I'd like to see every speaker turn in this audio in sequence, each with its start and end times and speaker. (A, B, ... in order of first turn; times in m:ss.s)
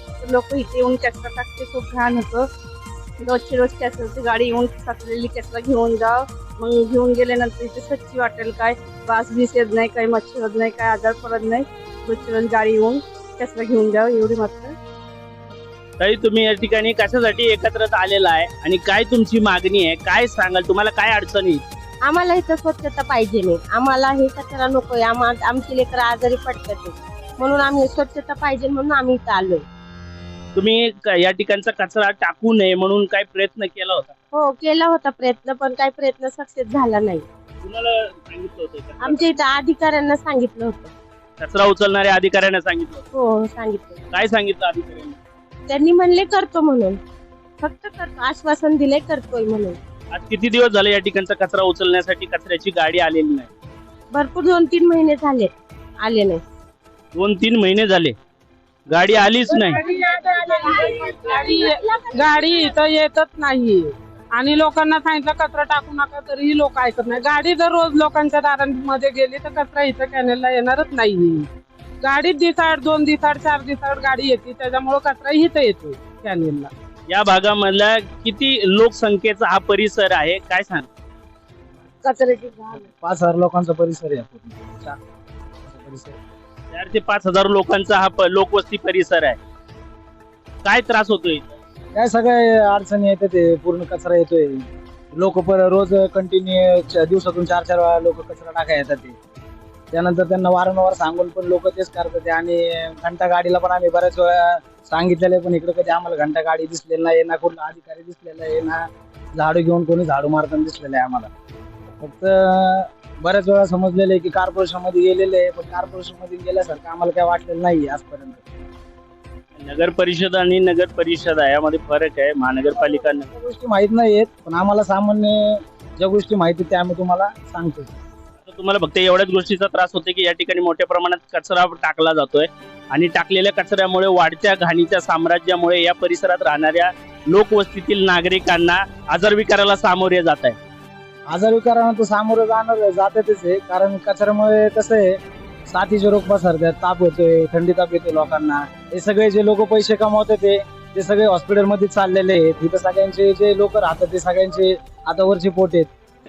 0:00.2-0:02.5 A
0:03.2-0:14.8 A
0:16.0-0:21.6 B
0:22.0-0:29.6 C
0:30.6-0:34.1 B
0:34.3-0:37.2 C
0:37.6-0:39.3 B
0:39.0-0:40.9 C
0:41.4-0:43.0 B
0:43.1-0:44.0 C
0:44.1-0:45.2 B
0:45.7-0:47.0 C
0:47.6-0:49.8 C
0:50.1-0:53.5 B
0:54.1-0:56.4 C
0:57.2-0:58.2 B
0:58.9-0:59.8 B
0:59.8-1:11.5 D
1:00.2-1:02.7 C
1:12.0-1:16.7 D
1:17.1-1:20.9 B
1:22.2-1:22.7 C
1:22.4-1:25.0 E
1:25.6-1:26.2 E
1:26.7-1:29.4 B
1:30.6-1:31.4 B
1:32.0-1:34.6 E
1:35.2-1:39.2 E
1:39.9-1:51.3 E
1:52.0-1:58.5 E
1:59.6-2:03.3 B
2:02.7-2:07.9 E
2:08.4-2:20.6 B
2:21.3-2:35.9 E